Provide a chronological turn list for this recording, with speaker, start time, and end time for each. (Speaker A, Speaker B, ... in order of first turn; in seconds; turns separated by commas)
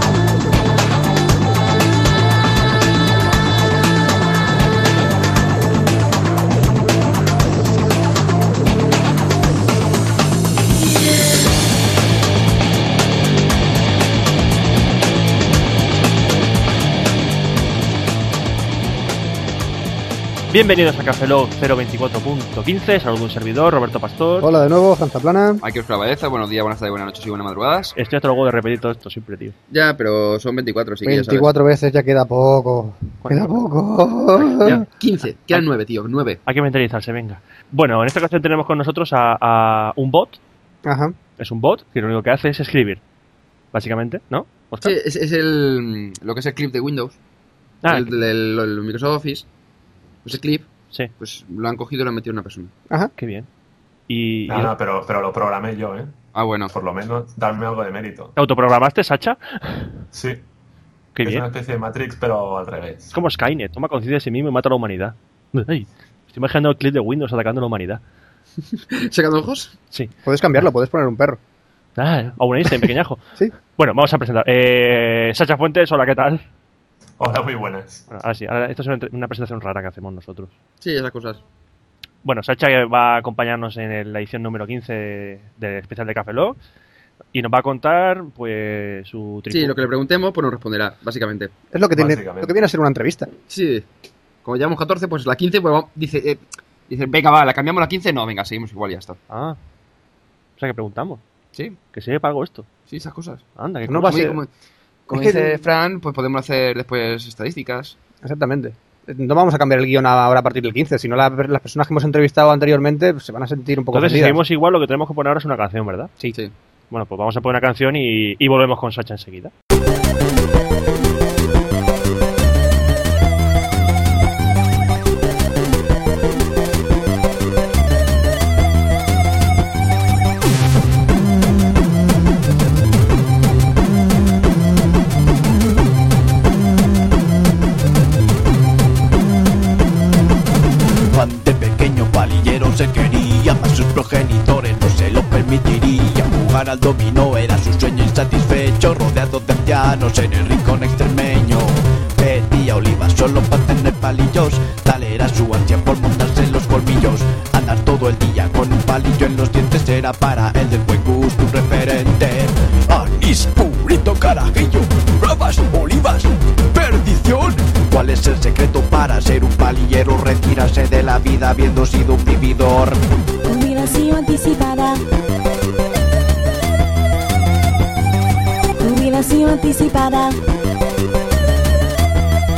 Speaker A: 20.5-24.5, Speaker B: 24.4-25.6, Speaker C: 25.6-27.9, Speaker A: 27.9-29.5, Speaker C: 29.7-31.5, Speaker B: 31.1-34.8, Speaker A: 33.2-33.5, Speaker C: 34.6-36.4, Speaker A: 36.5-40.4, Speaker B: 40.8-41.1, Speaker A: 41.4-43.0, Speaker A: 43.7-44.9, Speaker C: 44.8-47.2, Speaker A: 47.8-48.1, Speaker C: 47.9-49.5, Speaker C: 50.2-52.7, Speaker A: 53.2-53.5, Speaker A: 54.1-54.7, Speaker D: 54.5-58.4, Speaker C: 56.4-56.7, Speaker A: 58.4-59.9, Speaker D: 60.1-60.4, Speaker A: 61.1-61.5, Speaker D: 61.2-63.1, Speaker A: 63.1-68.0, Speaker C: 68.8-69.7, Speaker B: 70.2-71.4, Speaker A: 72.0-73.2, Speaker A: 73.7-76.4, Speaker D: 77.2-78.0, Speaker A: 78.1-80.5, Speaker C: 80.8-81.4, Speaker A: 82.2-86.6, Speaker A: 87.3-89.8, Speaker C: 89.5-91.5, Speaker B: 91.7-93.3, Speaker D: 91.9-92.5, Speaker C: 93.5-93.9, Speaker C: 94.4-99.2, Speaker A: 99.3-99.6, Speaker A: 100.6-101.2, Speaker A: 101.9-102.7, Speaker C: 102.9-103.4, Speaker A: 103.6-104.3, Speaker B: 103.8-104.3, Speaker C: 104.0-104.5, Speaker B: 105.1-105.6, Speaker C: 105.1-108.0, Speaker B: 108.2-114.4, Speaker A: 113.9-116.1, Speaker A: 116.9-119.5, Speaker E: 141.1-173.0, Speaker F: 173.4-175.0, Speaker F: 178.8-180.4